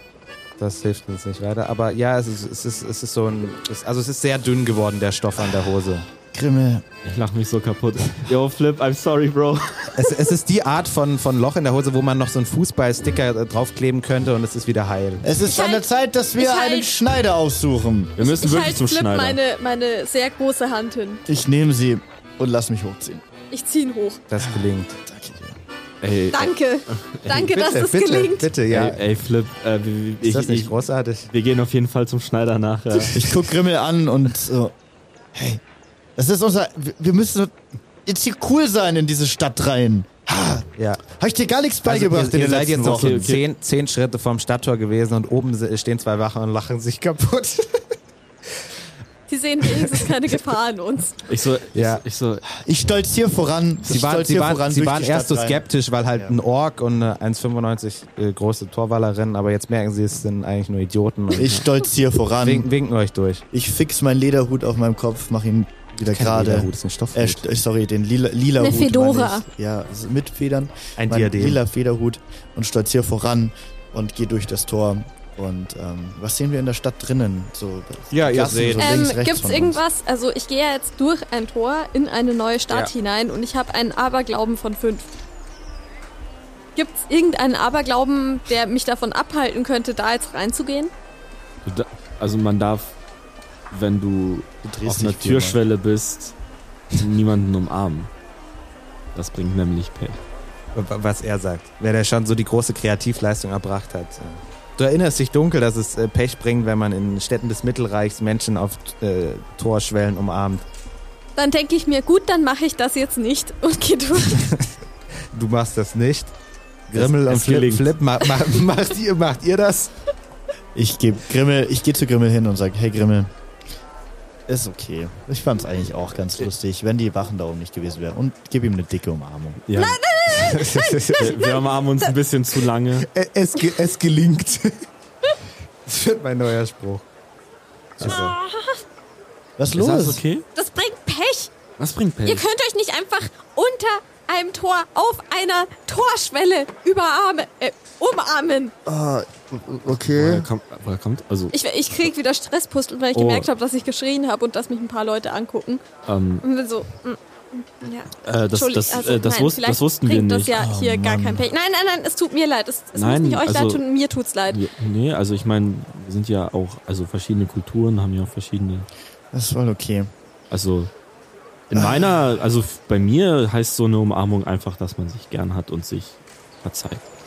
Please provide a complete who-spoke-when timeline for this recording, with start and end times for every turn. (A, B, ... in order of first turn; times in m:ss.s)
0:00.6-0:06.1 A
0:06.1-0:06.8 B
0:07.0-0:10.1 C
0:09.9-0:15.3 A
0:15.2-0:18.2 B
0:15.5-0:16.9 D
0:18.2-0:19.4 C
0:18.2-0:21.2 D
0:21.3-0:23.2 B
0:23.5-0:24.2 D
0:24.3-0:25.0 A
0:24.4-0:25.6 B
0:26.0-0:27.3 C
0:26.3-0:28.5 D
0:27.3-0:29.0 A
0:28.7-0:30.8 C
0:30.2-0:31.3 A
0:31.3-0:33.4 C
0:33.1-0:34.7 B
0:35.3-0:35.6 B
0:36.2-0:43.4 B
0:40.8-0:41.0 A
0:41.8-0:47.9 A
0:42.8-0:43.4 C
0:49.3-0:51.2 D
0:51.3-0:52.5 C
0:51.7-0:52.0 A
0:52.6-0:56.4 B
0:53.9-1:01.5 A
1:01.4-1:02.7 B
1:02.4-1:03.4 A
1:03.5-1:19.8 B
1:06.0-1:07.4 A
1:08.6-1:09.5 D
1:11.0-1:11.6 A
1:18.1-1:19.0 A
1:18.8-1:25.1 D
1:26.8-1:30.9 D
1:31.6-1:32.9 C
1:33.7-1:36.3 C
1:34.6-1:35.6 B
1:36.9-1:38.1 C
1:39.2-1:40.2 C
1:40.8-1:50.6 A
1:51.4-1:54.5 D
1:54.3-1:54.6 A
1:55.3-1:56.3 A
1:56.9-1:59.9 A
1:57.0-1:57.9 C
2:00.8-2:03.3 B
2:04.5-2:09.6 B
2:09.7-2:10.0 C
2:09.7-2:12.1 D
2:10.3-2:11.3 A
2:11.2-2:13.1 C
2:13.0-2:14.8 A
2:15.8-2:17.0 A
2:18.0-2:18.4 A
2:18.0-2:18.8 D
2:19.6-2:20.2 B
2:19.7-2:20.4 C
2:20.6-2:21.5 D
2:21.8-2:22.4 C
2:22.2-2:28.7 D
2:28.8-2:30.5 B
2:30.1-2:31.6 C
2:31.5-2:35.8 D
2:33.2-2:33.5 C
2:36.1-2:36.4 C
2:36.4-2:44.6 D
2:38.2-2:40.6 C
2:40.5-2:41.5 B
2:43.0-2:43.8 C
2:44.5-2:48.9 C
2:49.3-2:50.1 B
2:50.5-2:50.9 C
2:51.7-2:52.2 B
2:51.7-2:57.0 C